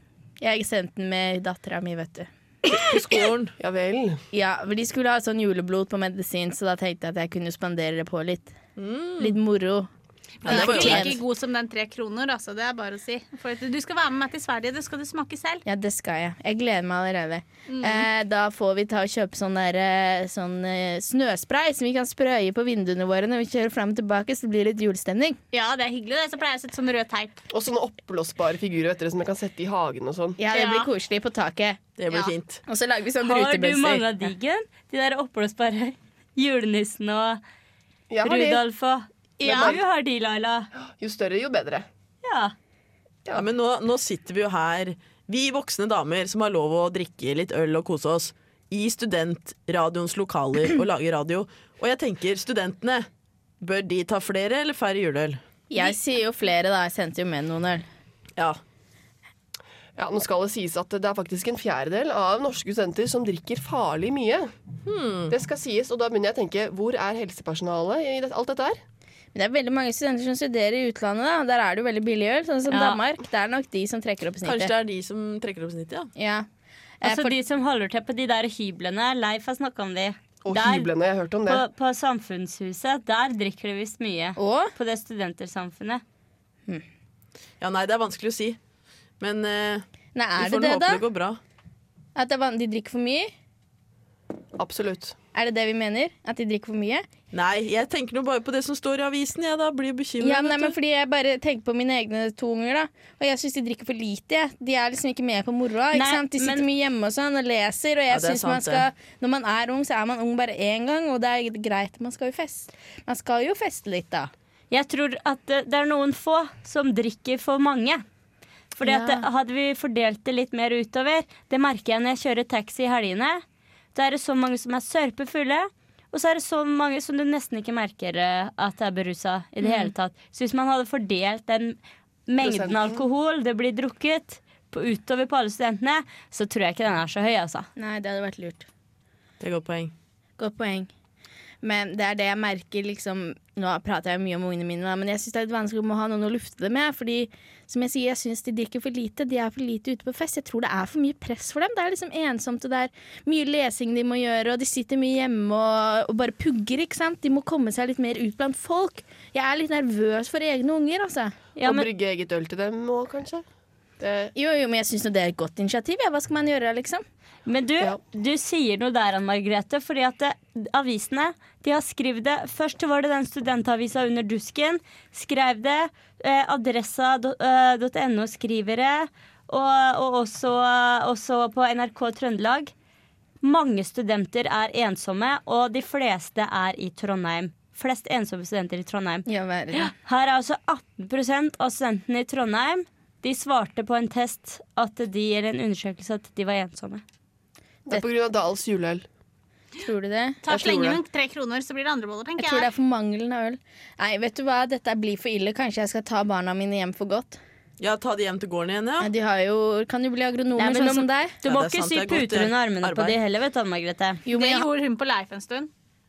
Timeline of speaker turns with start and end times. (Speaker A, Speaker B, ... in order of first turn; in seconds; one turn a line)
Speaker A: 0.4-2.3
Speaker B: 2.7-3.5
Speaker C: 3.6-4.2
Speaker A: 4.3-8.6
Speaker B: 8.8-9.4
Speaker A: 9.2-9.9
Speaker D: 10.4-15.6
Speaker A: 10.4-11.2
Speaker B: 10.4-11.2
Speaker A: 15.7-25.4
Speaker D: 17.7-18.0
Speaker D: 25.5-27.4
Speaker C: 27.5-30.4
Speaker A: 30.4-31.8
Speaker D: 30.5-30.9
Speaker B: 32.0-32.6
Speaker A: 32.7-34.0
Speaker E: 33.2-37.4
Speaker C: 38.1-38.6
Speaker E: 38.2-40.7
Speaker D: 39.4-39.8
Speaker C: 39.4-39.8
Speaker C: 40.9-41.9
Speaker E: 42.2-42.5
Speaker B: 43.3-53.1
Speaker B: 53.6-55.4
Speaker A: 55.7-57.9
Speaker C: 60.0-64.5
Speaker B: 64.8-65.3
Speaker C: 65.3-68.8
Speaker A: 69.3-74.7
Speaker E: 72.7-73.0
Speaker B: 74.4-76.1
Speaker A: 76.2-76.5
Speaker A: 77.0-77.3
Speaker E: 77.0-80.9
Speaker C: 80.4-81.6
Speaker E: 81.5-86.0
Speaker A: 84.4-84.7
Speaker B: 87.6-88.6
Speaker B: 89.2-89.8
Speaker A: 90.1-91.0
Speaker B: 90.4-91.4
Speaker A: 92.2-93.3
Speaker C: 94.6-95.1
Speaker A: 95.3-97.1
Speaker B: 97.3-100.8
Speaker A: 100.2-114.3
Speaker E: 105.9-106.6
Speaker B: 108.1-108.8
Speaker E: 114.7-118.0
Speaker E: 118.7-123.4
Speaker A: 118.8-119.2
Speaker E: 123.9-137.7
Speaker A: 129.6-129.9
Speaker C: 132.4-133.0
Speaker A: 137.8-138.7
Speaker B: 139.4-139.9
Speaker A: 140.4-140.9
Speaker A: 141.6-161.3
Speaker E: 161.6-161.9
Speaker C: 161.6-163.4
Speaker C: 164.0-164.3
Speaker A: 164.3-167.0
Speaker E: 167.4-182.7
Speaker E: 183.4-189.2
Speaker A: 189.2-189.9
Speaker E: 189.8-197.0
Speaker C: 197.9-199.0
Speaker A: 199.8-200.5
Speaker D: 200.4-202.7
Speaker C: 200.5-201.0
Speaker A: 202.4-207.4
Speaker B: 207.8-209.1
Speaker A: 209.0-211.3
Speaker E: 210.5-214.2
Speaker B: 211.4-213.2
Speaker A: 214.2-214.7
Speaker D: 214.3-215.7